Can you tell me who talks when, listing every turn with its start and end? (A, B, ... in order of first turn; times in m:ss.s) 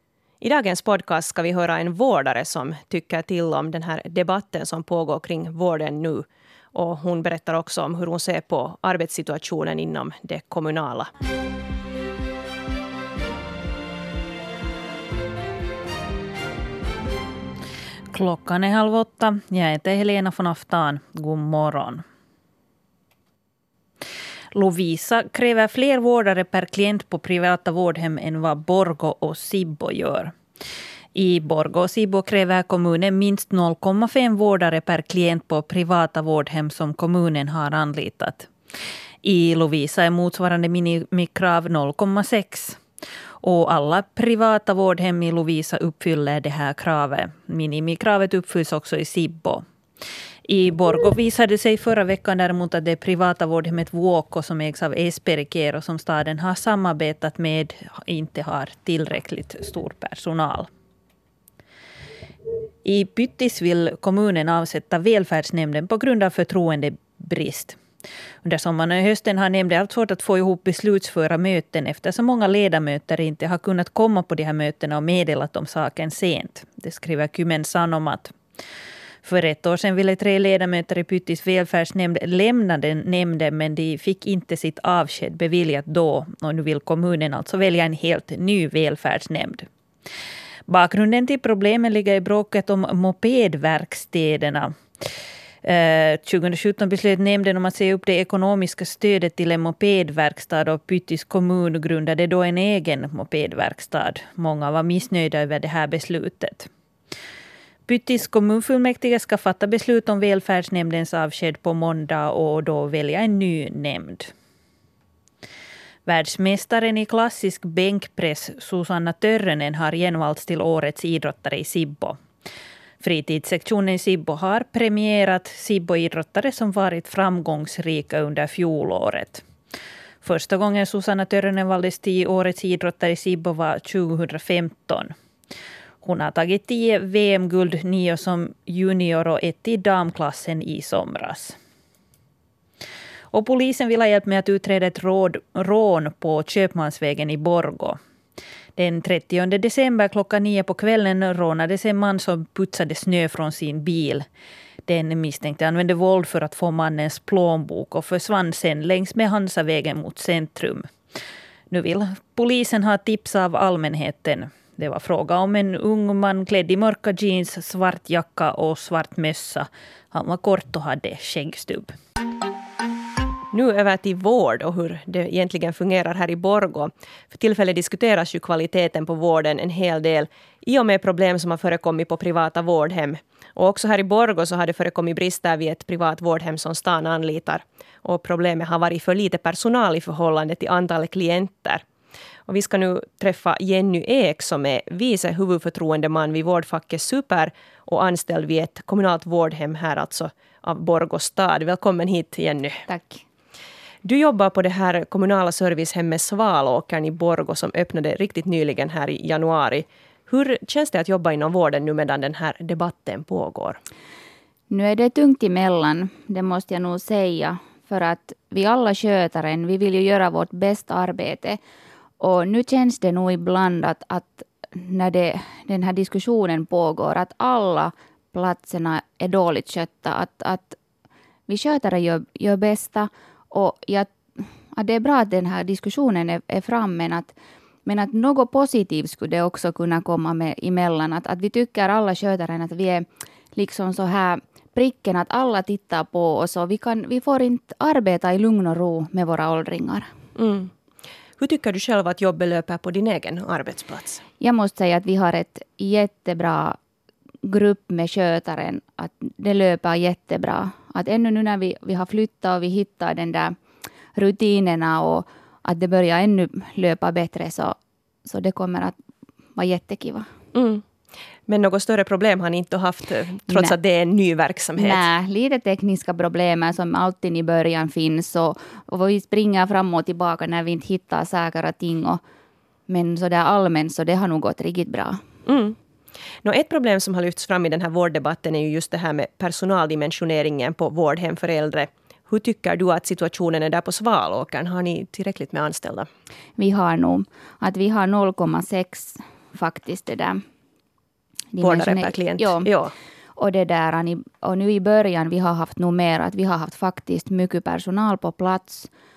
0:00.4-0:11.1 A
0:18.1-0:22.0 B
0:24.5-0:30.3 B
0:31.1-0:38.5 B
0:39.2-0:42.8 B
0:43.4-0:49.6 B
0:50.5-1:00.7 B
1:02.8-1:07.8 B
1:08.4-1:18.4 B
1:19.2-1:29.7 B
1:30.7-1:34.7 B
1:35.6-1:46.7 B
1:47.9-1:54.3 B
1:56.0-2:02.2 B
2:03.0-2:09.4 B
2:10.2-2:15.1 B
2:16.0-2:21.6 B
2:23.3-2:28.0 B
2:28.8-2:34.2 B
2:34.9-2:40.9 B
2:41.7-2:51.9 B
2:53.5-3:11.8 A
3:12.5-3:22.8 A
3:22.9-3:23.2 C
3:24.0-3:33.8 A
3:34.7-3:41.6 C
3:42.2-3:50.8 C
3:51.5-3:54.1 C
3:54.7-3:57.3 C
3:57.8-4:10.1 C
4:10.4-4:10.7 A
4:11.4-4:14.2 A
4:14.4-4:16.8 C
4:17.4-4:23.5 C
4:24.1-4:28.9 C
4:29.5-4:30.2 C
4:30.5-4:30.8 A
4:31.5-4:35.0 A
4:33.5-4:33.7 C
4:34.8-4:42.2 C
4:42.9-4:45.2 C
4:45.4-4:45.8 A
4:46.4-4:56.1 A
4:56.6-5:00.4 C
5:01.5-5:02.7 C
5:01.6-5:02.9 A
5:03.4-5:08.9 C